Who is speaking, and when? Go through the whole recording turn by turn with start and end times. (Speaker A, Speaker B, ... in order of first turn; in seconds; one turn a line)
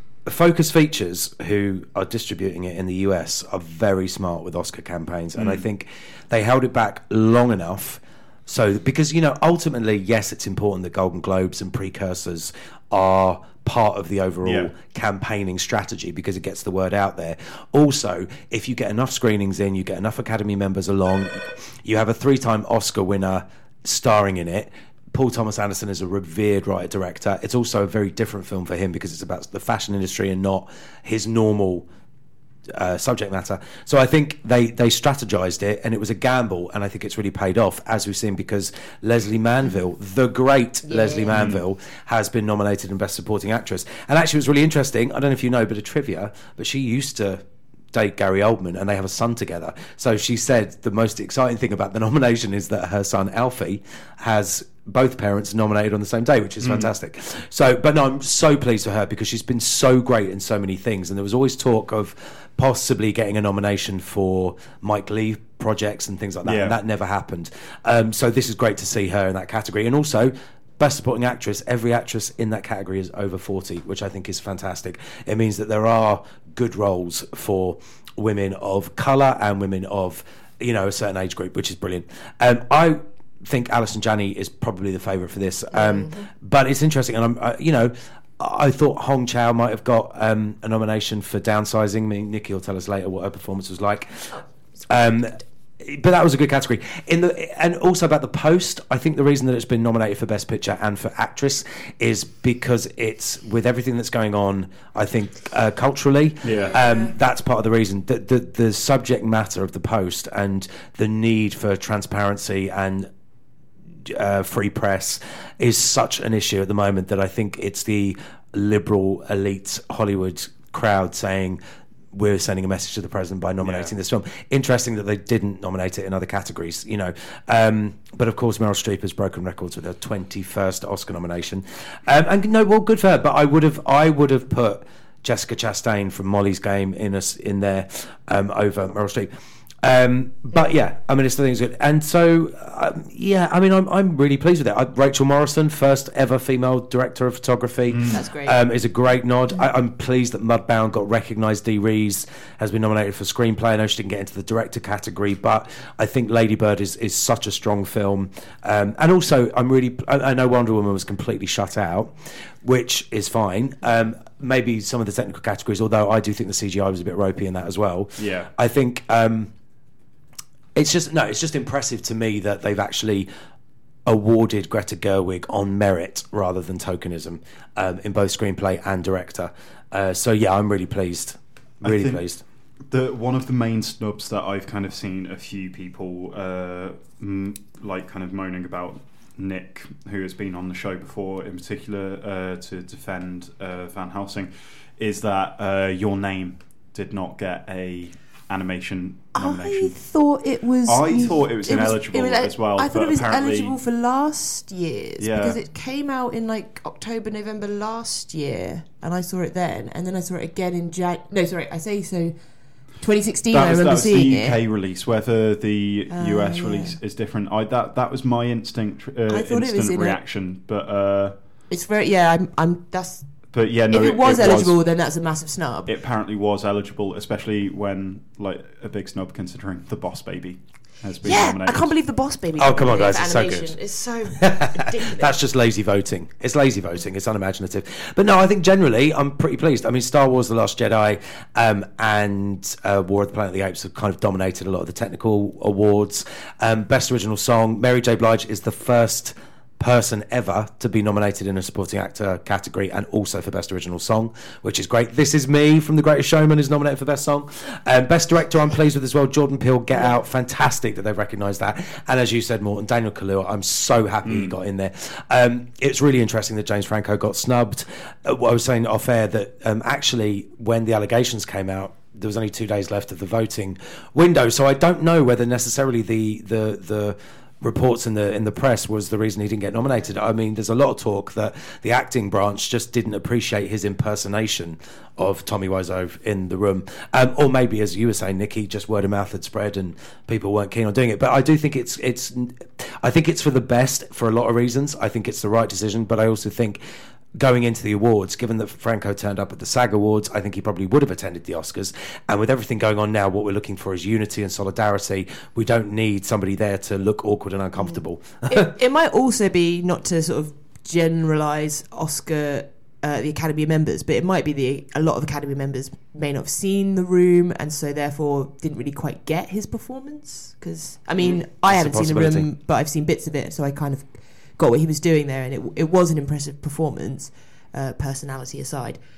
Speaker A: 0.2-31.9
Speaker B: 5.3-5.6
Speaker B: 14.4-14.7
Speaker A: 32.7-113.1
Speaker C: 40.8-41.4
Speaker B: 41.3-41.6
Speaker B: 56.6-56.9
Speaker B: 66.4-66.8
Speaker C: 85.7-86.2
Speaker B: 106.4-106.8
Speaker C: 106.6-107.1
Speaker A: 114.0-121.6
Speaker A: 122.1-139.3
Speaker B: 123.6-123.9
Speaker A: 139.8-169.5
Speaker B: 147.9-148.2
Speaker C: 148.1-148.6
Speaker B: 168.2-168.5
Speaker A: 170.7-173.3
Speaker A: 174.1-182.4
Speaker B: 181.8-182.2
Speaker B: 182.8-200.0
Speaker C: 199.3-214.6
Speaker B: 200.8-203.8
Speaker B: 205.2-205.6
Speaker B: 213.5-221.3
Speaker C: 216.1-217.0
Speaker C: 219.3-220.2
Speaker C: 221.7-223.3
Speaker B: 223.5-224.8
Speaker C: 223.9-225.9
Speaker B: 225.8-231.9
Speaker C: 231.2-235.4
Speaker A: 232.6-233.8
Speaker A: 234.3-296.8
Speaker B: 264.2-264.5
Speaker A: 297.4-308.7
Speaker C: 307.8-329.0
Speaker A: 321.2-322.5